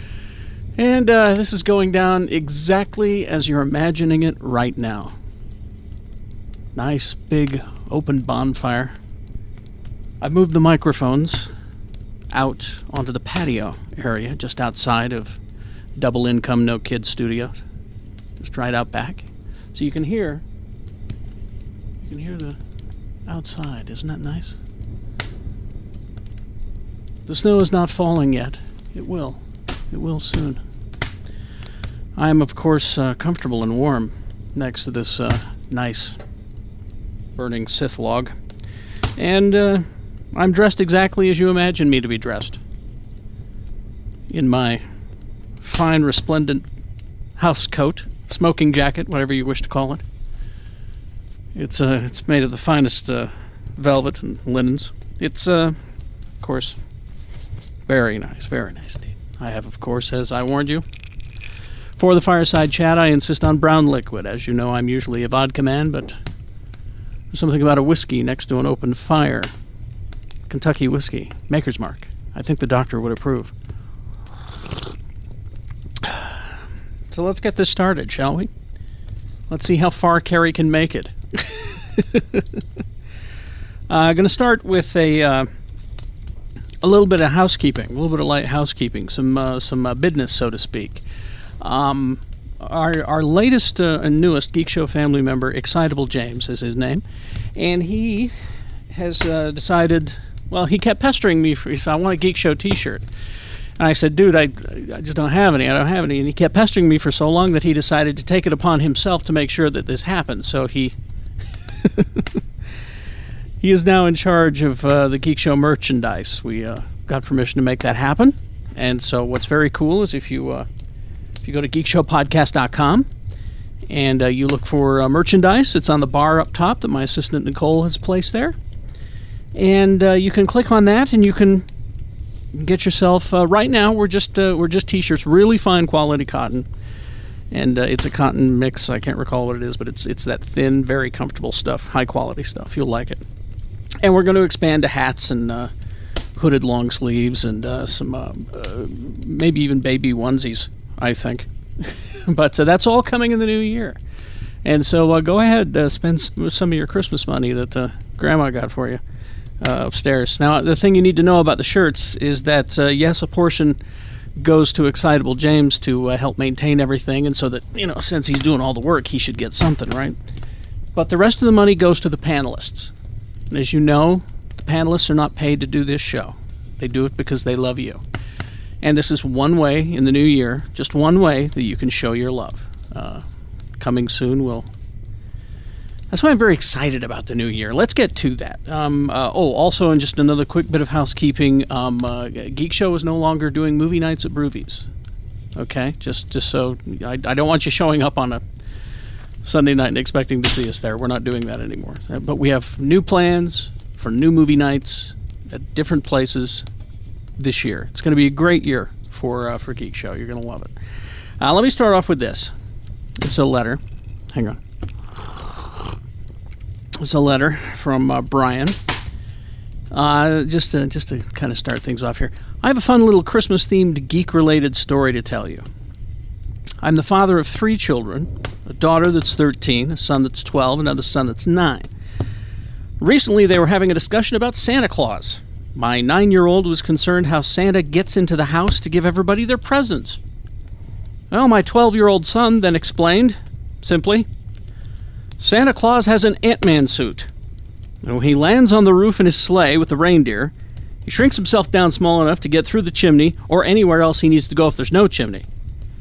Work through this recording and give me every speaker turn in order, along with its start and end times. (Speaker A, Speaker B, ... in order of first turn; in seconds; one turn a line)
Speaker A: 0.8-5.1
Speaker A: 6.7-8.9
Speaker A: 10.2-11.5
Speaker A: 12.3-15.4
Speaker A: 16.0-17.6
Speaker A: 18.4-20.4
Speaker A: 22.0-22.6
Speaker A: 23.3-24.5
Speaker A: 27.3-30.6
Speaker A: 32.1-36.2
Speaker A: 37.3-38.3
Speaker A: 39.2-42.6
Speaker A: 44.3-44.8
Speaker A: 45.6-46.6
Speaker A: 47.4-50.0
Speaker A: 51.5-55.8
Speaker A: 56.4-56.8
Speaker A: 57.9-60.8
Speaker A: 62.0-66.1
Speaker A: 67.3-69.5
Speaker A: 70.5-73.5
Speaker A: 77.1-78.5
Speaker A: 79.5-82.4
Speaker A: 83.9-85.5
Speaker A: 86.8-91.0
Speaker A: 91.6-97.0
Speaker A: 97.5-98.3
Speaker A: 98.9-103.0
Speaker A: 103.8-110.9
Speaker A: 112.0-112.2
Speaker A: 113.6-120.7
Speaker A: 121.4-123.1
Speaker A: 123.9-128.6
Speaker A: 129.5-131.7
Speaker A: 132.5-136.7
Speaker A: 137.5-143.2
Speaker A: 144.0-145.7
Speaker A: 146.3-154.0
Speaker A: 154.6-159.0
Speaker A: 159.6-163.8
Speaker A: 164.4-170.2
Speaker A: 170.9-172.9
Speaker A: 173.5-178.0
Speaker A: 178.8-183.2
Speaker A: 183.8-184.7
Speaker A: 186.1-194.9
Speaker A: 195.6-198.4
Speaker A: 199.4-206.7
Speaker A: 207.4-210.7
Speaker A: 211.4-212.5
Speaker A: 213.2-213.8
Speaker A: 214.3-214.6
Speaker A: 217.0-218.8
Speaker A: 219.9-225.6
Speaker A: 226.8-231.9
Speaker A: 233.0-240.2
Speaker A: 241.3-244.3
Speaker A: 245.4-247.3
Speaker A: 248.0-250.5
Speaker A: 251.0-255.4